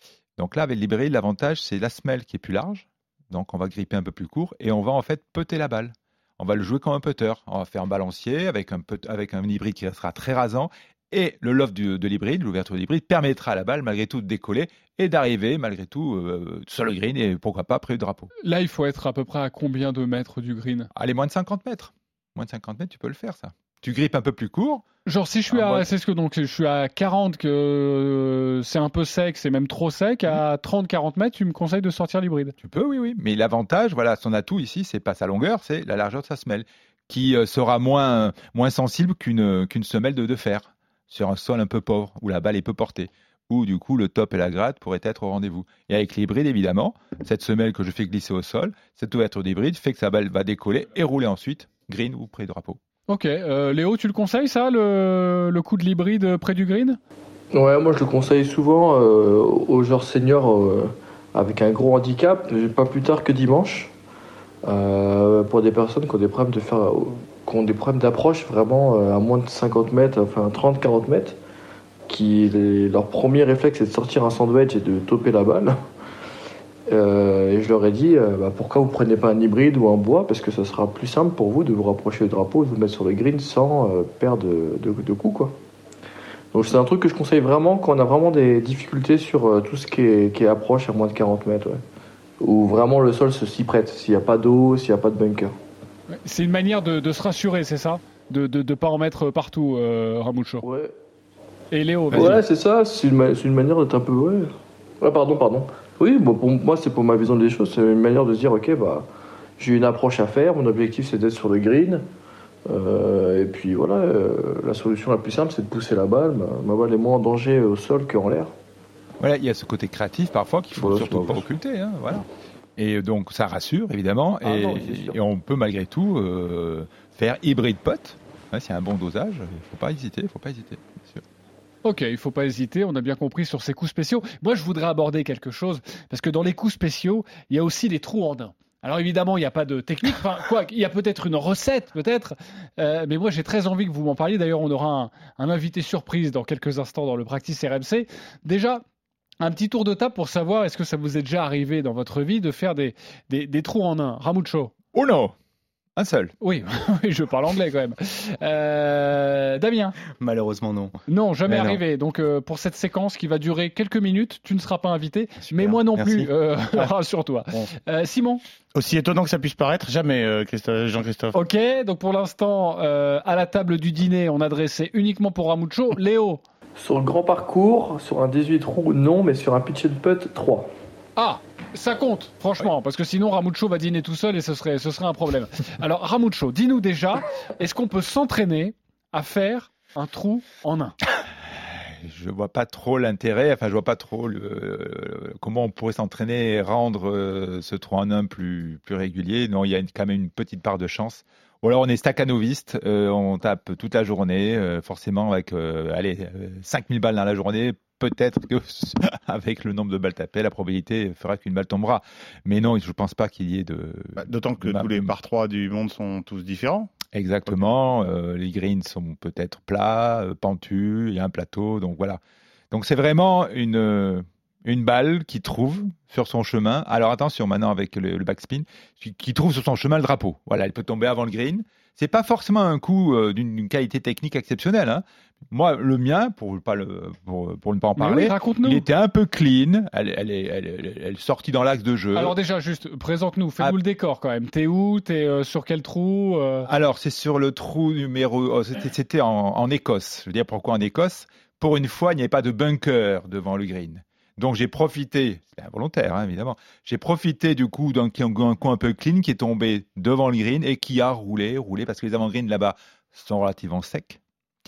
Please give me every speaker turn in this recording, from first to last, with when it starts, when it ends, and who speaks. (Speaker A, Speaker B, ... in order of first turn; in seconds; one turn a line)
Speaker A: 0.4-18.3
Speaker B: 18.4-20.9
Speaker A: 20.9-24.9
Speaker B: 25.1-32.5
Speaker A: 25.5-25.9
Speaker A: 32.6-52.8
Speaker B: 53.1-57.0
Speaker C: 57.5-63.9
Speaker C: 64.6-71.4
Speaker C: 72.1-75.8
Speaker C: 76.9-85.5
Speaker C: 86.5-91.8
Speaker C: 92.4-95.5
Speaker B: 96.2-100.7
Speaker C: 100.6-100.9
Speaker B: 101.7-102.4
Speaker C: 102.1-109.1
Speaker C: 109.6-112.0
Speaker C: 112.7-118.5
Speaker A: 119.2-122.3
Speaker C: 120.7-121.5
Speaker A: 122.8-131.2
Speaker C: 124.4-125.2
Speaker B: 131.8-148.8
Speaker B: 149.4-154.7
Speaker A: 154.9-155.3
Speaker A: 156.0-156.3
Speaker B: 156.4-160.0
Speaker D: 160.2-161.8
Speaker B: 161.1-168.4
Speaker D: 165.4-166.9
Speaker E: 168.8-171.3
Speaker B: 171.3-176.4
Speaker C: 176.8-180.7
Speaker B: 181.2-191.0
Speaker A: 192.0-215.1
Speaker E: 214.2-216.9
Speaker A: 217.1-222.2
Speaker A: 222.7-242.4
Speaker B: 238.0-238.8
Speaker B: 242.2-246.7
Speaker A: 246.7-264.2